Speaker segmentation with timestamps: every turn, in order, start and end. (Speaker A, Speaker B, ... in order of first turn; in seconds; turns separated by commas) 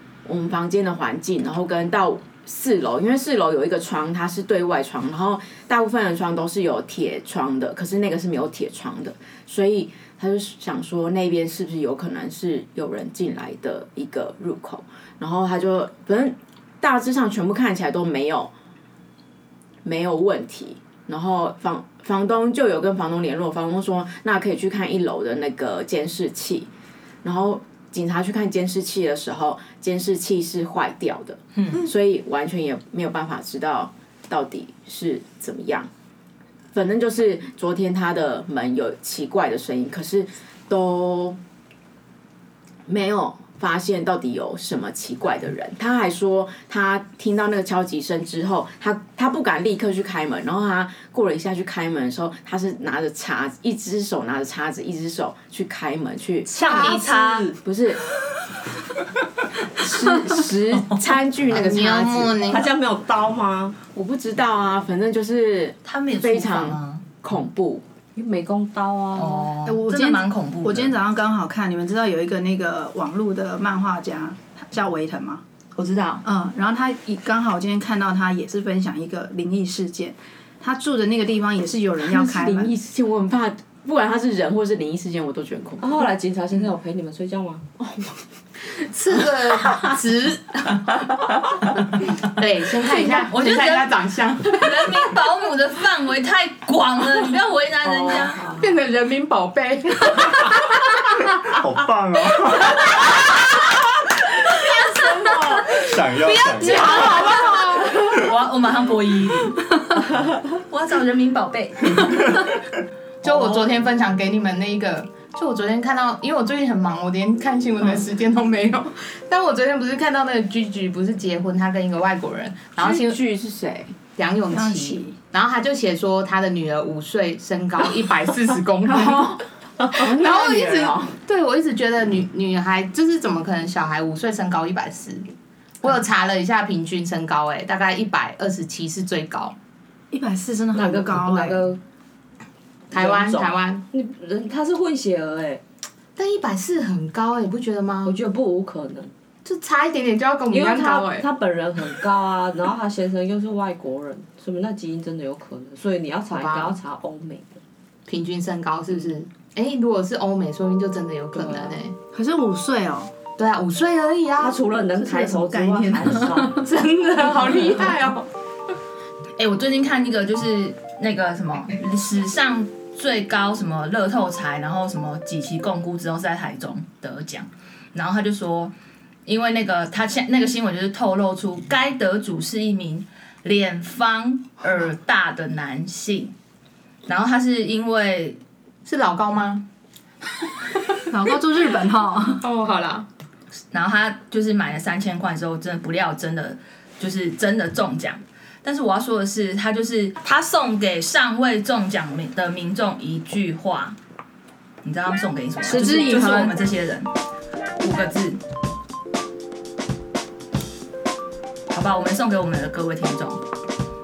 Speaker A: 0.3-18.5, Speaker A: 19.8-26.7, Speaker A: 27.2-35.9, Speaker A: 36.7-41.4, Speaker A: 42.9-56.8, Speaker B: 56.5-57.6, Speaker C: 56.5-57.5, Speaker A: 57.6-58.0, Speaker A: 59.8-62.3, Speaker D: 61.5-62.6, Speaker B: 62.5-63.8, Speaker A: 63.9-67.8, Speaker C: 65.8-67.0, Speaker B: 68.2-69.5, Speaker C: 69.2-70.9, Speaker E: 69.6-75.4, Speaker C: 75.8-76.2, Speaker E: 76.2-82.7, Speaker A: 82.1-86.0, Speaker B: 85.8-87.6, Speaker A: 87.8-88.1, Speaker D: 88.8-94.8, Speaker C: 93.0-98.5, Speaker B: 97.8-98.7, Speaker D: 98.6-100.5, Speaker F: 101.5-102.8, Speaker C: 104.7-109.6, Speaker F: 105.8-107.2, Speaker D: 106.7-108.0, Speaker C: 110.5-112.5, Speaker D: 113.2-123.2, Speaker A: 122.8-124.0, Speaker D: 124.2-129.3, Speaker E: 124.5-125.2, Speaker A: 128.9-131.2, Speaker D: 130.2-135.2, Speaker D: 135.8-139.6, Speaker E: 140.1-141.6, Speaker B: 140.7-141.8, Speaker D: 142.9-143.8, Speaker B: 142.9-145.6, Speaker D: 146.2-148.2, Speaker B: 148.0-149.1, Speaker D: 149.4-151.3, Speaker B: 150.5-157.6, Speaker D: 156.3-156.8, Speaker D: 158.1-161.9, Speaker B: 161.4-161.8, Speaker E: 162.1-163.1, Speaker D: 163.4-164.7, Speaker B: 164.4-166.6, Speaker E: 165.6-166.6, Speaker D: 166.7-168.3, Speaker C: 169.4-178.7, Speaker C: 179.3-186.3, Speaker C: 187.1-188.4, Speaker D: 188.9-189.7, Speaker E: 191.1-192.4, Speaker D: 192.4-193.1, Speaker C: 193.7-204.0, Speaker C: 204.8-207.1, Speaker E: 205.6-206.6, Speaker C: 207.8-208.4, Speaker C: 211.7-213.4